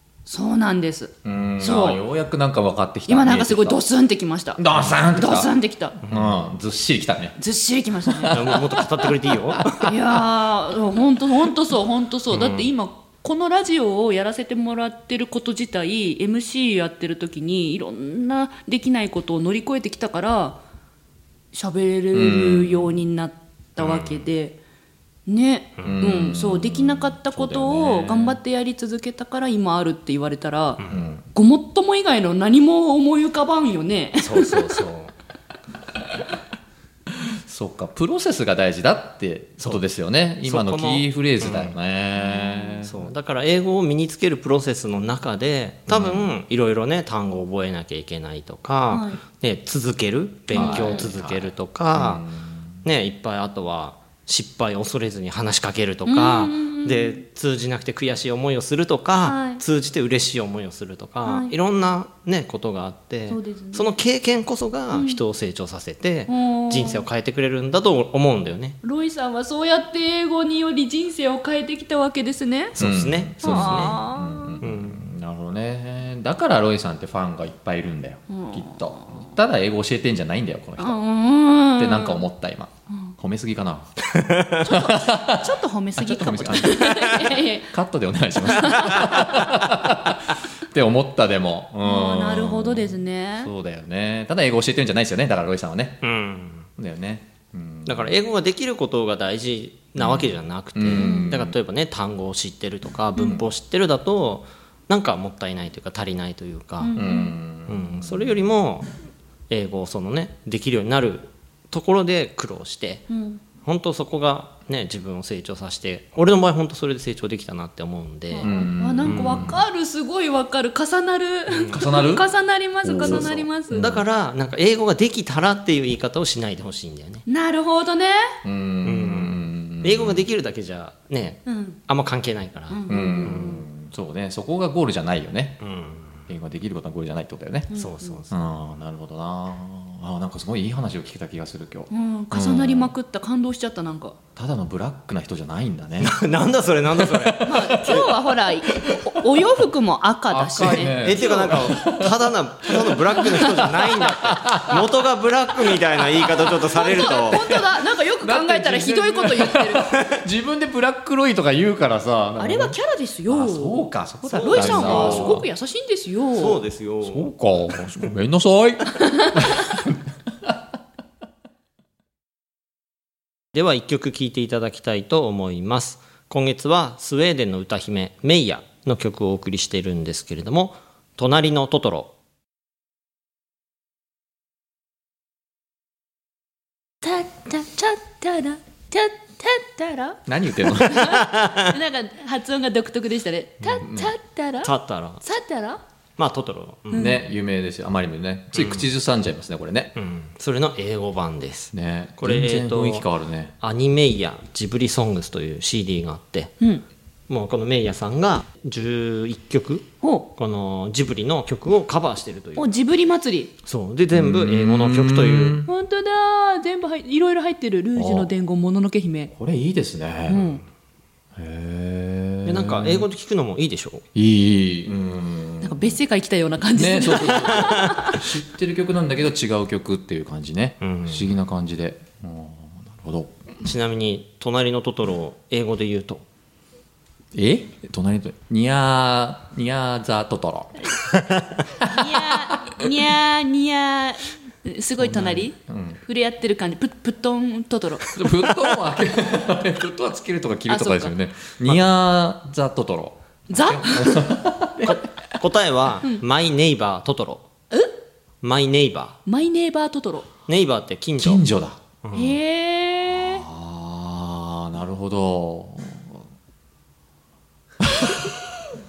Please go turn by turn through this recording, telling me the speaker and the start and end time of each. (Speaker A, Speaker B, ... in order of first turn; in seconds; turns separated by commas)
Speaker A: 0.2-2.0, Speaker B: 1.2-3.8, Speaker A: 3.1-4.6, Speaker B: 4.6-5.5, Speaker A: 5.1-6.0, Speaker C: 6.0-6.3, Speaker B: 6.1-7.3, Speaker A: 7.4-8.6, Speaker B: 8.1-8.5, Speaker C: 8.3-9.9, Speaker B: 9.5-9.9, Speaker A: 9.8-20.6, Speaker C: 12.3-12.7, Speaker A: 21.5-24.6, Speaker B: 22.1-23.0, Speaker C: 23.8-24.3, Speaker A: 25.3-30.8, Speaker C: 25.8-26.0, Speaker B: 25.8-28.4, Speaker B: 30.9-31.3, Speaker A: 31.3-34.8, Speaker C: 34.2-35.1, Speaker B: 37.1-43.1, Speaker C: 40.4-41.8, Speaker A: 42.3-42.8, Speaker C: 42.8-52.2, Speaker B: 45.9-46.3, Speaker A: 48.9-49.2, Speaker B: 50.5-52.8, Speaker A: 50.5-51.1, Speaker C: 52.8-68.8, Speaker A: 56.0-57.2, Speaker A: 59.2-59.6, Speaker A: 61.2-61.5, Speaker A: 63.3-63.9, Speaker A: 64.9-65.2, Speaker A: 66.3-67.0, Speaker A: 68.8-72.7, Speaker C: 72.8-74.0, Speaker B: 72.8-81.0, Speaker A: 73.4-74.6, Speaker C: 74.6-75.0, Speaker A: 78.3-79.2, Speaker A: 80.8-82.2, Speaker B: 81.8-83.9, Speaker C: 84.1-84.5, Speaker A: 84.6-87.7, Speaker B: 84.7-96.0, Speaker A: 88.4-89.5, Speaker A: 91.8-93.5, Speaker C: 96.0-96.7, Speaker B: 96.8-98.2, Speaker C: 97.8-107.0, Speaker B: 100.0-101.5, Speaker A: 100.9-101.3, Speaker B: 103.2-103.4, Speaker A: 106.8-107.3, Speaker B: 106.9-108.4, Speaker C: 107.7-108.9, Speaker C: 109.5-113.1, Speaker A: 113.1-113.4, Speaker C: 113.6-118.5, Speaker A: 118.3-123.9, Speaker B: 118.4-119.6, Speaker C: 119.0-119.5, Speaker C: 121.5-121.9, Speaker B: 121.7-122.3, Speaker B: 122.8-124.0, Speaker C: 123.0-127.2, Speaker A: 127.2-128.3, Speaker B: 128.4-130.2, Speaker C: 128.8-133.6, Speaker A: 131.4-131.8, Speaker A: 132.7-133.6, Speaker B: 132.9-135.6, Speaker C: 135.6-136.3, Speaker B: 136.3-137.7, Speaker A: 137.7-138.2, Speaker C: 137.7-138.3, Speaker B: 138.3-142.9, Speaker A: 141.9-144.2, Speaker B: 144.3-146.2, Speaker C: 146.0-148.1, Speaker B: 146.9-148.1, Speaker A: 147.4-151.7, Speaker B: 148.7-149.2, Speaker B: 150.3-154.9, Speaker C: 151.0-157.5, Speaker A: 153.2-153.7, Speaker B: 155.7-157.7, Speaker A: 156.6-160.0, Speaker B: 158.2-162.8, Speaker A: 162.4-163.8, Speaker B: 163.3-165.5, Speaker C: 164.2-165.4, Speaker A: 164.3-166.6, Speaker C: 166.3-167.3, Speaker B: 167.0-170.6, Speaker C: 173.5-182.1, Speaker A: 187.0-190.2, Speaker B: 190.3-191.2, Speaker A: 190.8-194.7, Speaker C: 191.0-191.7, Speaker B: 193.7-194.1, Speaker C: 194.6-195.2, Speaker A: 195.2-195.8, Speaker C: 196.2-197.1, Speaker A: 196.9-197.2, Speaker B: 196.9-199.9, Speaker C: 198.5-198.9, Speaker C: 199.9-203.1, Speaker B: 201.7-203.5, Speaker C: 203.6-206.6, Speaker C: 207.3-212.7, Speaker A: 212.6-213.5, Speaker C: 213.7-215.6, Speaker B: 214.1-215.7, Speaker A: 215.7-219.3, Speaker B: 217.9-218.3, Speaker B: 219.3-220.5, Speaker A: 220.3-220.6, Speaker B: 221.3-223.1, Speaker C: 222.4-224.0, Speaker B: 224.1-226.0, Speaker A: 225.6-228.2, Speaker B: 226.7-233.6, Speaker C: 227.3-228.0, Speaker C: 230.8-231.3, Speaker C: 233.6-236.2, Speaker B: 237.3-240.9, Speaker B: 241.8-242.8, Speaker A: 241.8-248.1, Speaker B: 245.0-246.0, Speaker B: 248.1-255.4, Speaker A: 250.7-251.1, Speaker A: 253.5-254.2, Speaker C: 254.8-257.5, Speaker C: 258.4-259.2, Speaker A: 259.2-260.3, Speaker C: 260.5-261.4, Speaker B: 261.2-261.8, Speaker C: 262.0-262.4, Speaker A: 262.1-263.4, Speaker B: 263.1-266.2, Speaker B: 267.9-268.3